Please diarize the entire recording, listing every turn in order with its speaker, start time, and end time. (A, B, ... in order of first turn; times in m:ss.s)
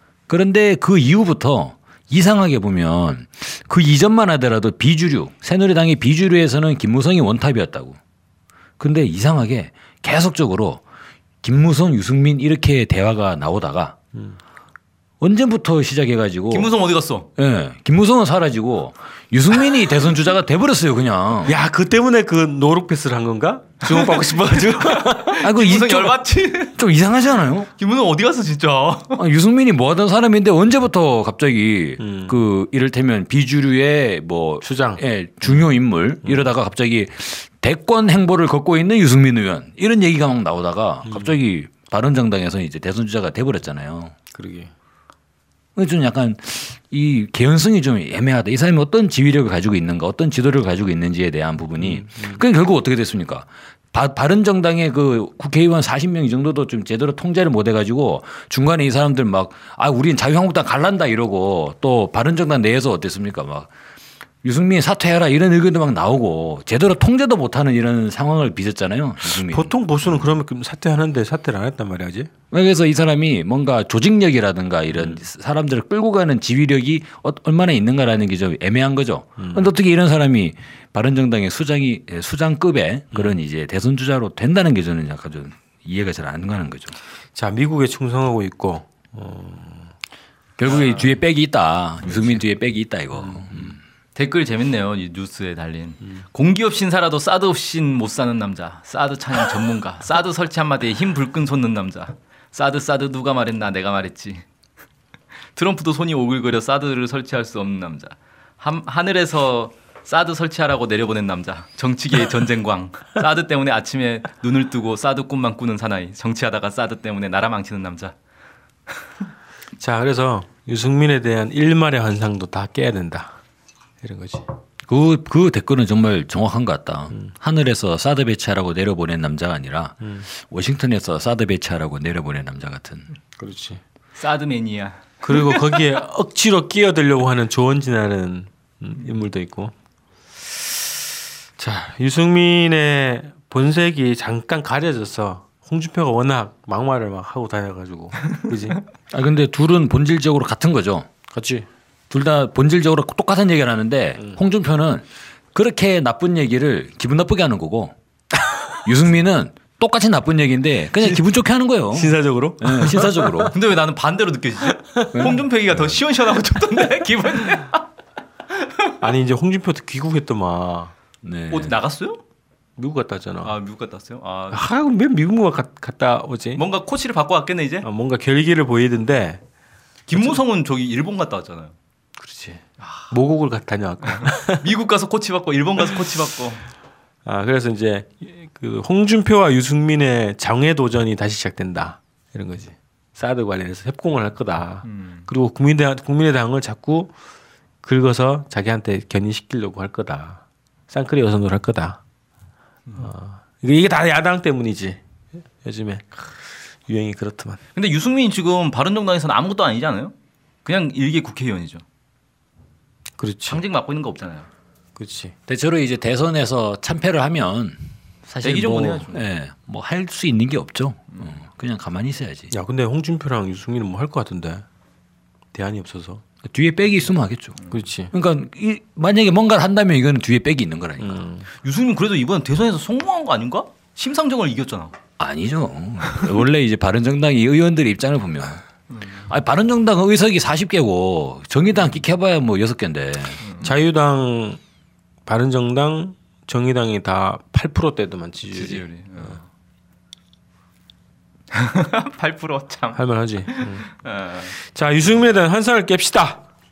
0:00.3-0:08.0 A
0:08.8-0:10.8 A
0:11.4-0:13.9 A
0:15.2-0:16.7 A
0:16.5-0:17.3 B
0:17.4-0:21.6 A
0:21.4-0:25.4 C
0:23.8-0:26.8 B
0:25.4-0:26.2 A
0:26.7-0:27.7 A
0:27.7-0:29.2 B
0:29.1-0:44.1 A
0:32.0-0:32.4 C
0:34.6-0:35.6 C
0:41.1-0:41.4 C
0:44.3-0:44.7 C
0:45.8-1:03.7 A
0:51.8-0:52.4 C
1:04.4-1:09.7 A
1:09.3-1:12.3 C
1:12.5-1:27.0 A
1:14.9-1:15.2 C
1:19.4-1:19.7 C
1:23.1-1:23.4 C
1:27.3-1:29.9 C
1:30.6-1:33.8 A
1:30.7-1:31.2 B
1:33.1-1:33.7 C
1:34.1-1:44.4 B
1:45.5-1:58.1 B
1:59.8-2:03.3 C
2:04.0-2:04.4 C
2:04.9-2:13.1 A
2:13.4-2:13.8 C
2:14.2-2:15.8 B
2:15.2-2:19.7 C
2:21.6-2:28.8 C
2:29.1-2:31.1 A
2:31.3-2:31.7 C
2:32.1-2:37.9 A
2:38.8-2:43.5 A
2:41.9-2:43.5 C
2:43.5-2:47.8 B
2:44.7-2:45.3 C
2:49.0-2:50.9 C
2:51.2-2:51.8 A
2:51.5-2:52.2 B
2:52.8-2:53.6 C
2:53.4-2:54.6 B
2:54.5-2:56.6 C
2:56.5-2:57.9 B
2:57.8-2:59.4 C
3:00.1-3:01.7 B
3:00.1-3:00.4 C
3:02.2-3:04.7 C
3:02.8-3:03.1 B
3:04.1-3:06.6 B
3:07.2-3:17.1 C
3:14.8-3:15.3 B
3:17.8-3:22.0 C
3:22.9-3:25.0 C
3:25.6-3:27.6 C
3:27.7-3:31.8 B
3:33.2-3:33.6 C
3:33.5-3:34.5 B
3:35.0-3:35.3 C
3:35.5-3:42.5 A
3:38.4-3:39.2 B
3:42.5-3:44.6 C
3:45.5-3:46.2 C
3:46.4-3:47.6 A
3:47.7-3:48.1 C
3:48.1-3:51.3 A
3:51.0-3:51.5 C
3:51.6-3:55.0 B
3:55.2-3:58.6 A
3:58.9-3:59.2 B
3:59.2-4:03.4 A
4:03.4-4:03.8 B
4:03.6-4:04.6 C
4:05.2-4:09.3 C
4:08.5-4:09.4 B
4:11.5-4:14.5 B
4:12.9-4:13.8 C
4:14.5-4:16.4 C